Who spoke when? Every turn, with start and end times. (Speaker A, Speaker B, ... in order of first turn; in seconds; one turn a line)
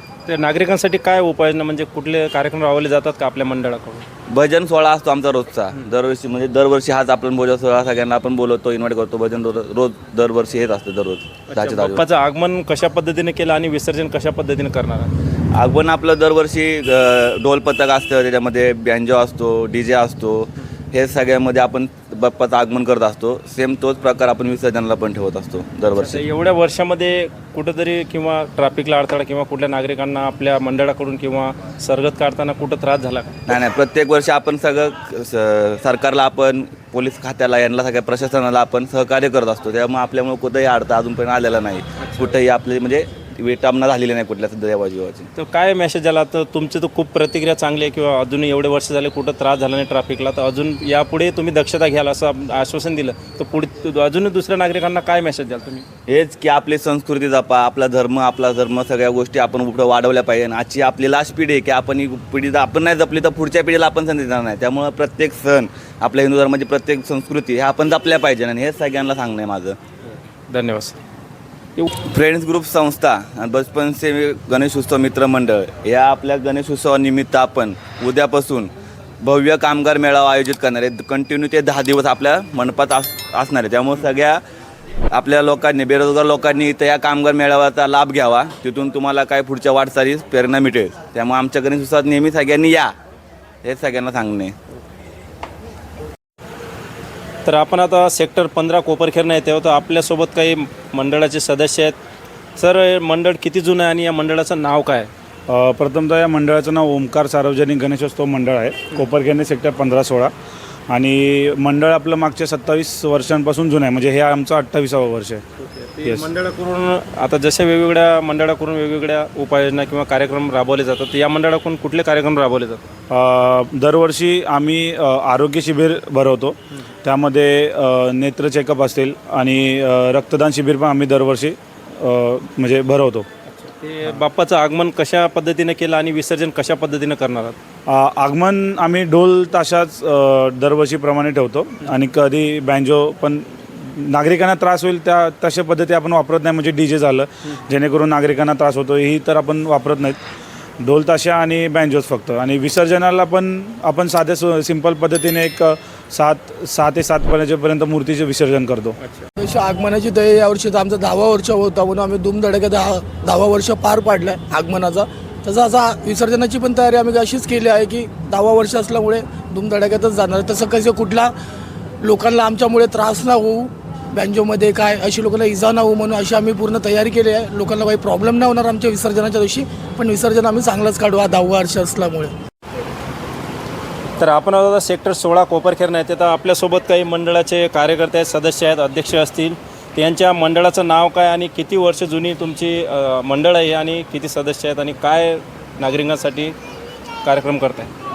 Speaker A: 0.3-4.0
Speaker B: 4.3-12.0
Speaker A: 11.5-15.1
Speaker B: 15.5-26.2
Speaker A: 25.9-33.5
Speaker B: 33.5-45.3
Speaker A: 42.0-42.3
Speaker A: 45.4-55.8
Speaker B: 56.1-69.8
Speaker A: 70.5-71.0
Speaker B: 72.0-84.4
Speaker B: 85.1-92.9
Speaker B: 93.6-94.5
Speaker A: 97.5-101.9
Speaker A: 102.6-105.1
Speaker C: 105.5-110.3
Speaker C: 110.9-115.4
Speaker A: 115.8-122.8
Speaker C: 123.1-133.2
Speaker A: 133.5-137.6
Speaker C: 137.9-150.2
Speaker C: 150.8-159.0
Speaker D: 159.4-171.3
Speaker D: 172.0-182.3
Speaker A: 184.2-196.6
Speaker A: 197.2-197.9